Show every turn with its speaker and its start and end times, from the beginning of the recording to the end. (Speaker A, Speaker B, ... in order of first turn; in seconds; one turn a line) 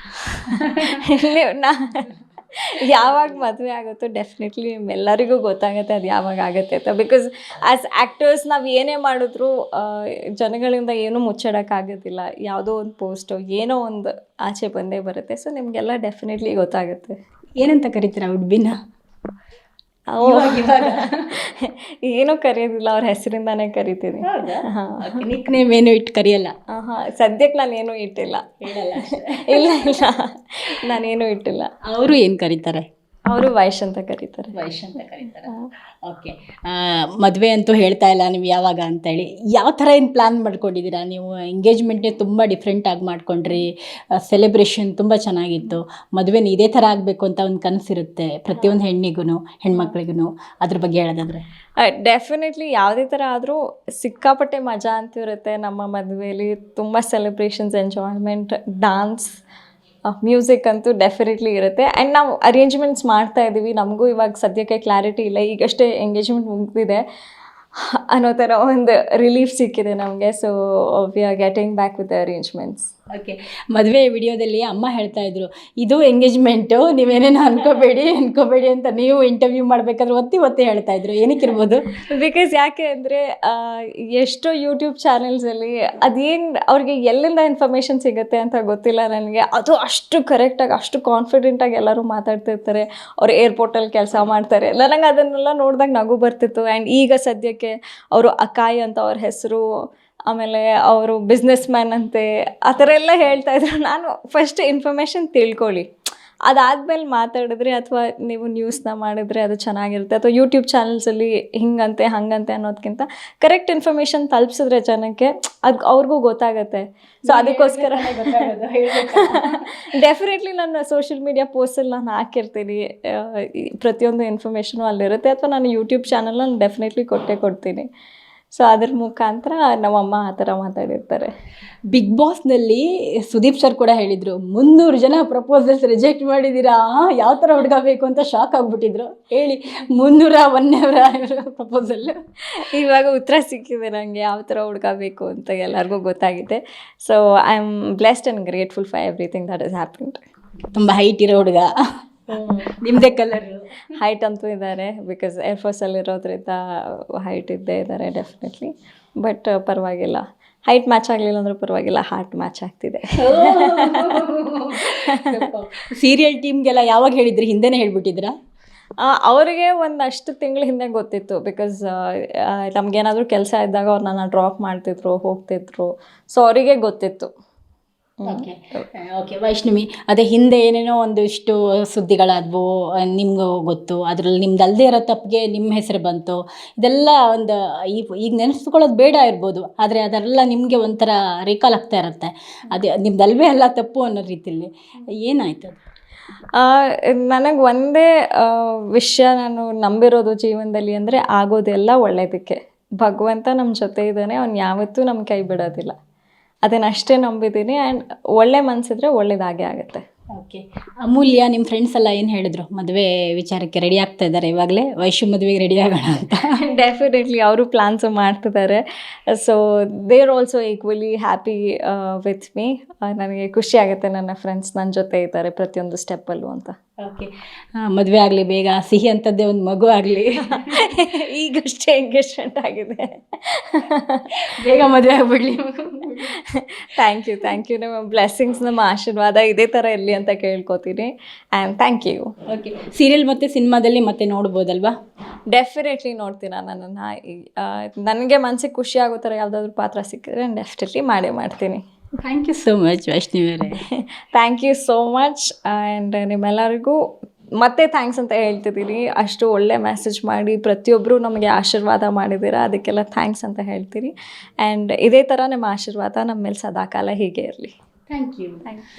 Speaker A: 0.2-1.0
Speaker B: 0.9-17.2
Speaker A: 17.6-18.8
Speaker B: 20.1-25.2
Speaker A: 20.2-21.3
Speaker A: 24.2-26.5
Speaker B: 26.7-31.7
Speaker A: 28.6-30.0
Speaker A: 31.9-32.9
Speaker B: 33.3-34.5
Speaker A: 34.5-35.5
Speaker A: 36.1-51.4
Speaker B: 51.8-59.4
Speaker B: 60.1-67.0
Speaker B: 67.8-72.9
Speaker A: 73.1-81.8
Speaker B: 82.1-99.7
Speaker B: 100.3-105.9
Speaker B: 106.5-118.5
Speaker A: 117.3-119.8
Speaker B: 119.1-127.9
Speaker B: 128.6-131.3
Speaker A: 131.9-142.2
Speaker B: 142.6-150.2
Speaker A: 150.7-151.7
Speaker B: 152.3-152.7
Speaker A: 152.3-153.7
Speaker B: 154.0-164.2
Speaker A: 163.2-168.3
Speaker B: 165.0-165.5
Speaker B: 169.0-177.3
Speaker B: 178.2-178.8
Speaker A: 178.2-195.8
Speaker B: 196.6-205.9
Speaker B: 206.7-210.0
Speaker A: 210.4-216.5
Speaker B: 216.6-226.8
Speaker A: 227.0-230.8
Speaker B: 230.6-234.3
Speaker A: 234.5-236.3
Speaker B: 236.4-242.3
Speaker A: 242.5-244.9
Speaker B: 245.5-251.8
Speaker A: 252.2-253.8
Speaker B: 253.9-257.0
Speaker B: 257.6-267.7
Speaker A: 268.1-268.6